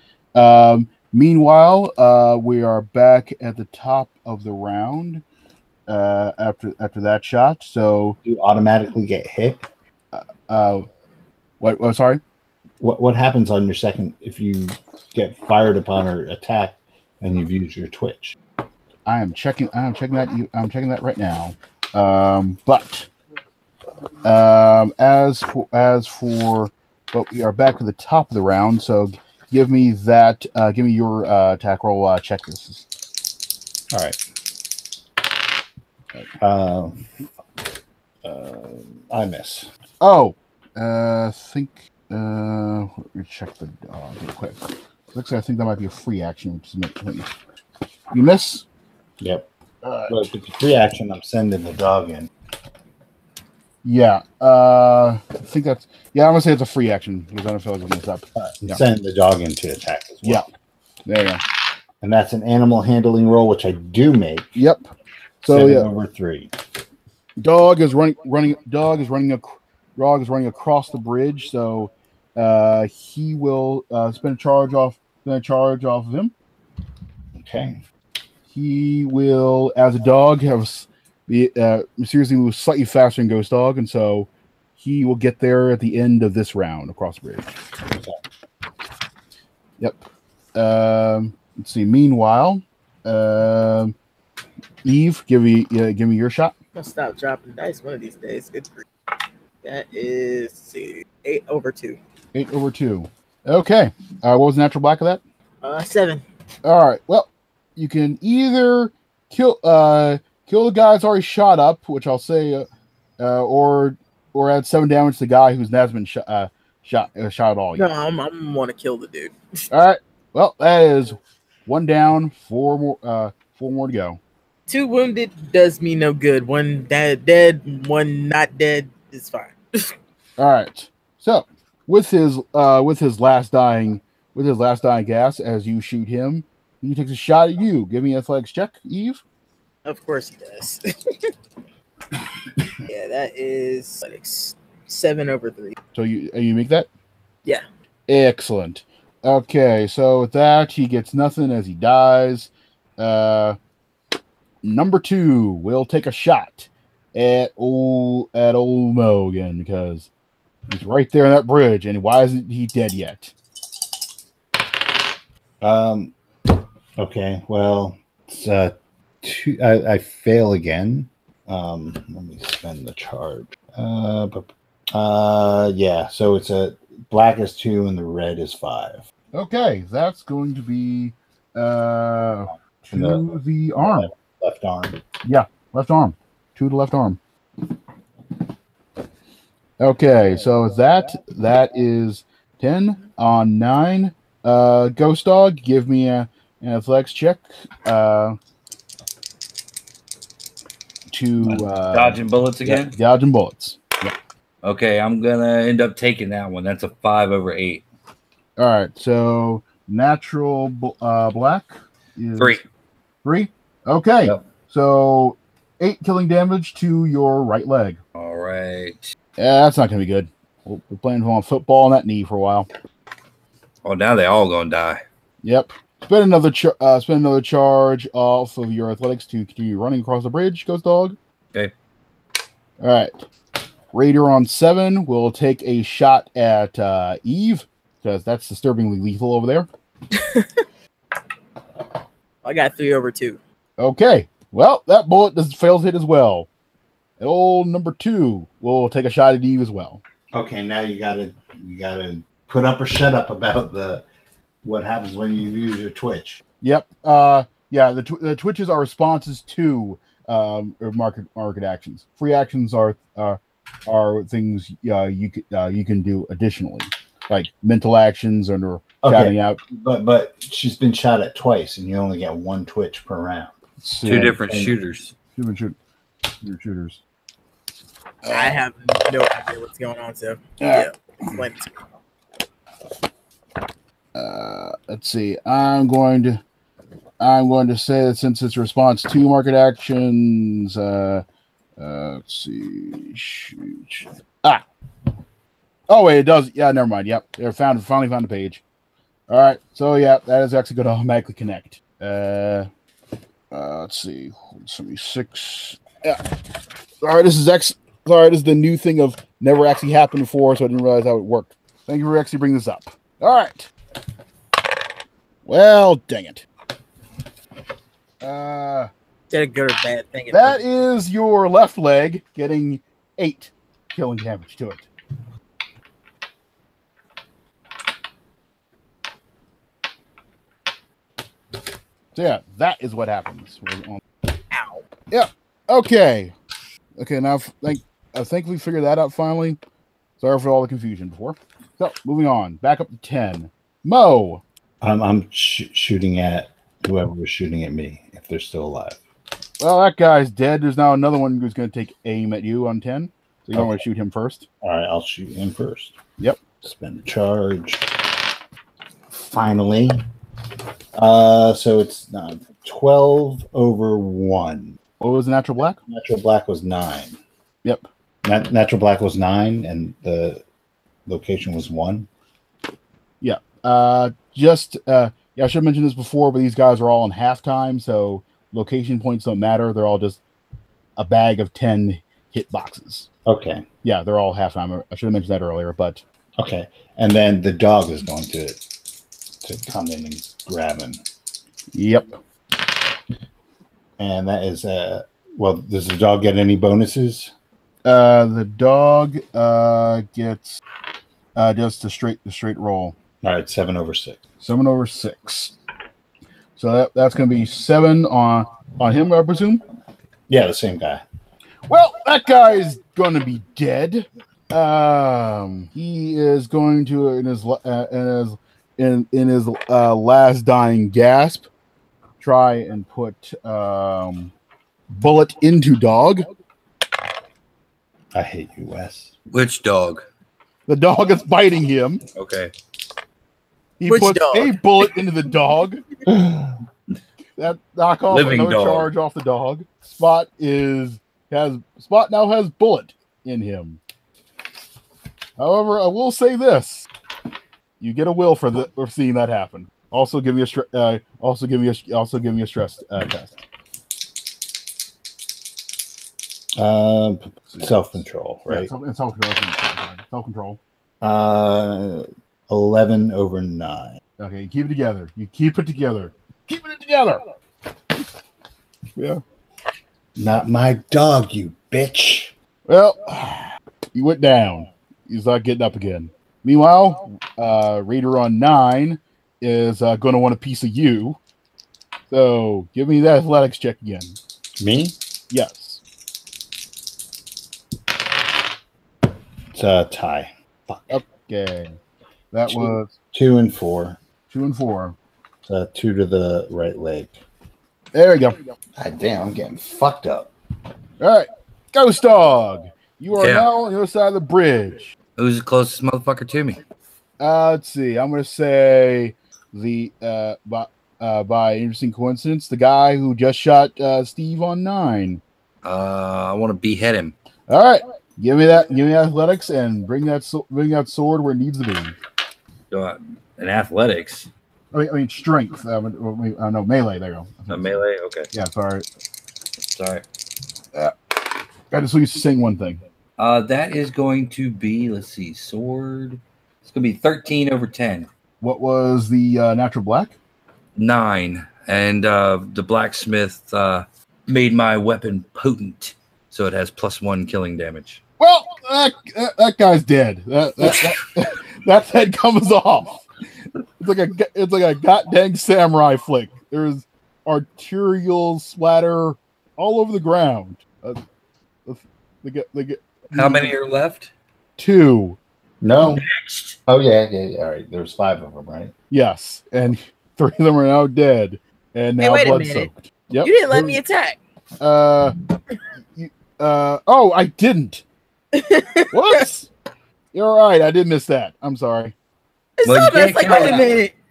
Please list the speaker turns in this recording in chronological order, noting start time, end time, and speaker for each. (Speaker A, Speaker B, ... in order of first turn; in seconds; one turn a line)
Speaker A: 0.3-5.2
Speaker A: 5.9-8.2
Speaker B: 8.2-9.6
Speaker A: 10.1-10.9
Speaker A: 11.6-12.2
Speaker B: 12.8-18.4
Speaker A: 19.1-23.1
Speaker A: 24.2-32.9
Speaker B: 33.9-34.2
Speaker B: 36.4-37.0
Speaker B: 38.2-39.7
Speaker A: 40.0-44.6
Speaker A: 45.1-47.3
Speaker A: 48.1-48.7
Speaker B: 49.2-49.5
Speaker A: 49.8-50.2
Speaker B: 50.1-52.3
Speaker A: 53.8-58.8
Speaker B: 58.4-60.4
Speaker A: 61.1-61.4
Speaker B: 62.0-64.5
Speaker A: 64.5-64.8
Speaker A: 65.4-65.9
Speaker B: 65.5-66.5
Speaker A: 67.4-76.3
Speaker B: 77.4-77.8
Speaker A: 78.5-87.5
Speaker B: 87.9-88.2
Speaker A: 90.5-94.0
Speaker A: 94.8-96.5
Speaker C: 96.8-98.8
Speaker C: 99.6-102.0
Speaker A: 102.3-105.2
Speaker C: 105.6-106.2
Speaker A: 106.6-112.7
Speaker A: 113.2-117.9
Speaker C: 117.8-119.3
Speaker A: 119.7-124.2
Speaker C: 124.7-129.9
Speaker A: 130.4-139.2
Speaker C: 139.8-141.3
Speaker C: 142.9-145.8
Speaker A: 145.9-146.9
Speaker A: 148.1-153.6
Speaker A: 154.6-160.1
Speaker A: 160.7-163.3
Speaker B: 165.6-166.1
Speaker B: 167.0-179.0
Speaker A: 179.3-184.1
Speaker B: 182.9-185.0
Speaker A: 185.2-187.2
Speaker A: 189.8-198.4
Speaker A: 201.1-204.1
Speaker D: 201.4-202.9
Speaker D: 204.6-207.8
Speaker A: 208.6-212.6
Speaker D: 212.4-212.6
Speaker A: 213.2-218.0
Speaker D: 218.2-219.1
Speaker A: 219.4-222.7
Speaker D: 223.8-225.0
Speaker A: 225.4-231.2
Speaker A: 232.8-233.2
Speaker A: 233.9-239.7
Speaker C: 240.1-240.6
Speaker C: 242.4-243.4
Speaker A: 243.8-246.5
Speaker A: 247.2-250.0
Speaker B: 250.3-254.0
Speaker B: 254.6-256.4
Speaker A: 256.6-269.6
Speaker B: 269.0-273.5
Speaker A: 273.8-274.4
Speaker D: 274.0-275.1
Speaker B: 274.4-274.8
Speaker A: 275.4-275.8
Speaker A: 276.4-277.0
Speaker A: 278.2-278.6
Speaker C: 278.3-281.7
Speaker A: 280.6-281.3
Speaker A: 284.1-286.4
Speaker A: 287.2-291.2
Speaker A: 291.8-294.6
Speaker A: 295.9-298.6
Speaker A: 299.3-302.7
Speaker A: 303.5-306.2
Speaker A: 307.0-313.7
Speaker A: 315.4-316.4
Speaker A: 318.2-318.9
Speaker C: 319.3-320.6
Speaker A: 320.3-324.9
Speaker A: 332.1-334.0
Speaker C: 334.5-334.8
Speaker A: 335.1-336.3
Speaker A: 337.0-339.6
Speaker A: 340.2-344.4
Speaker B: 344.8-349.0
Speaker A: 349.6-354.5
Speaker B: 354.6-356.0
Speaker B: 356.6-357.9
Speaker B: 359.1-360.1
Speaker B: 360.9-364.8
Speaker A: 365.0-365.8
Speaker B: 365.9-367.2
Speaker B: 368.2-370.4
Speaker B: 371.1-372.1
Speaker A: 373.2-380.2
Speaker A: 381.0-383.1
Speaker B: 383.3-383.7
Speaker A: 383.8-386.0
Speaker B: 386.4-388.6
Speaker B: 389.4-391.0
Speaker A: 391.7-392.2
Speaker B: 394.0-397.3
Speaker A: 397.9-400.6
Speaker A: 401.4-402.9
Speaker B: 403.2-404.2
Speaker A: 404.4-405.6
Speaker A: 406.6-409.6
Speaker B: 410.3-411.0
Speaker A: 411.7-421.5
Speaker A: 422.2-424.3
Speaker A: 424.9-426.3
Speaker B: 428.1-429.1
Speaker D: 429.3-430.1
Speaker A: 430.7-432.0
Speaker D: 432.1-432.5
Speaker A: 433.8-435.8
Speaker C: 433.9-434.6
Speaker B: 436.1-436.6
Speaker A: 437.4-443.8
Speaker D: 438.1-438.9
Speaker A: 445.4-446.9
Speaker A: 447.8-453.4
Speaker B: 456.6-458.7
Speaker A: 457.5-460.6
Speaker B: 461.0-464.0
Speaker A: 464.2-467.2
Speaker A: 469.0-469.2
Speaker B: 470.2-472.3
Speaker A: 472.7-481.2
Speaker A: 482.1-484.2
Speaker B: 484.6-485.0
Speaker A: 485.3-485.8
Speaker B: 489.5-491.0
Speaker A: 490.9-491.8
Speaker A: 492.3-492.9
Speaker B: 492.5-494.0
Speaker A: 494.3-495.0
Speaker B: 495.5-497.2
Speaker A: 497.9-498.4
Speaker B: 498.8-500.3
Speaker A: 501.0-504.9
Speaker D: 503.2-503.5
Speaker D: 505.2-506.6
Speaker A: 507.2-515.2
Speaker D: 515.6-517.1
Speaker A: 517.5-522.0
Speaker D: 522.7-524.3
Speaker A: 524.7-527.8
Speaker D: 527.5-528.3
Speaker A: 528.3-528.9
Speaker D: 529.7-530.0
Speaker A: 531.7-532.8
Speaker D: 533.2-538.1
Speaker A: 538.4-540.2
Speaker D: 540.8-548.0
Speaker A: 548.2-553.0
Speaker A: 553.8-561.0
Speaker A: 561.7-563.5
Speaker D: 563.1-564.1
Speaker A: 564.6-565.2
Speaker B: 565.6-566.0
Speaker D: 566.0-566.6
Speaker B: 566.7-568.7
Speaker A: 568.9-573.8
Speaker C: 572.0-572.7
Speaker C: 573.2-574.2
Speaker A: 574.6-575.2
Speaker A: 576.0-577.8
Speaker C: 578.3-579.2
Speaker A: 578.9-579.5
Speaker A: 580.1-581.9
Speaker C: 582.6-583.9
Speaker D: 582.6-583.8